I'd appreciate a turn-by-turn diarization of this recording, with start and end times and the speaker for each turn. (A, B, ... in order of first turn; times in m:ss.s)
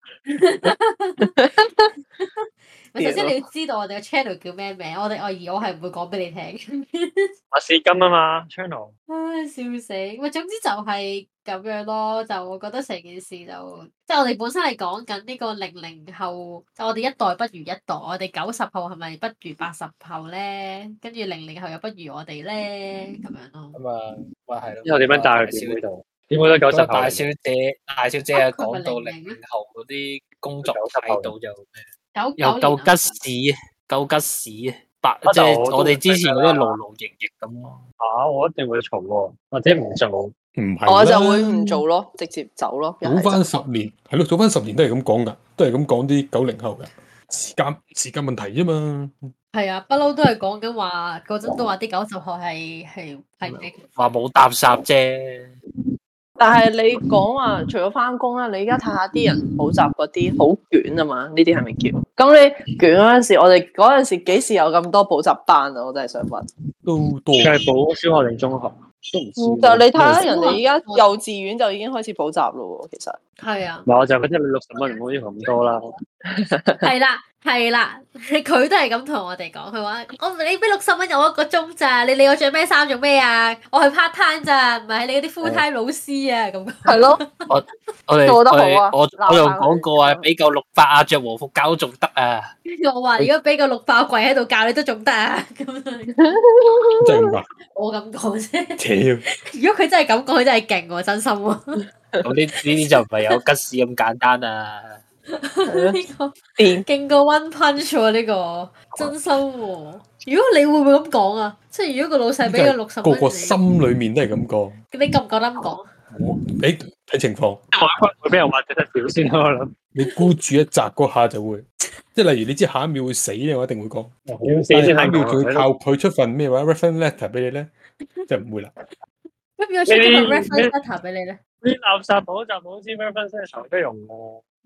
0:00.3-0:01.4 A
0:01.2-0:01.9 B
0:02.2-0:07.3 A
0:03.0-0:03.4 B
0:07.5-0:08.9 C
0:09.1-0:23.8 A
0:23.8-0:25.8 D
0:24.8-0:27.2 C
0:26.7-0:31.9 D
0:28.3-0:29.4 A
0:30.6-0:31.3 C
0:32.2-0:33.2 A
0:32.4-0:37.8 D
0:35.2-0:36.8 C
0:38.0-0:40.3 C
0:40.6-0:41.8 E
0:40.9-0:43.4 B
0:43.0-0:49.3 E
0:49.5-0:53.8 A
0:53.5-0:55.6 D
0:56.4-1:06.5 B
1:06.8-1:07.6 E
1:07.4-1:10.0 C
1:09.4-1:13.2 B
1:10.0-1:10.2 E
1:10.2-1:11.1 A
1:13.4-1:13.9 A
1:13.9-1:15.9 C
1:16.3-1:16.9 B
1:16.8-1:27.5 A
1:26.8-1:27.2 B
1:27.5-1:32.5 D
1:28.2-1:30.3 B
1:32.7-1:36.3 A
1:36.2-1:37.3 B
1:37.0-1:37.5 E
1:37.7-1:41.8 A
1:38.8-1:39.2 E
1:42.2-1:45.0 D
1:45.3-1:53.6 A
1:45.7-1:46.0 B
1:46.6-1:46.8 B
1:52.4-1:54.8 E
1:54.9-1:55.9 A
1:56.2-1:57.6 E
1:57.7-1:59.7 C
1:59.9-2:07.7 E
2:04.3-2:05.7 C
2:08.3-2:08.7 E
2:09.6-2:11.4 A
2:09.9-2:10.7 C
2:11.6-2:14.4 C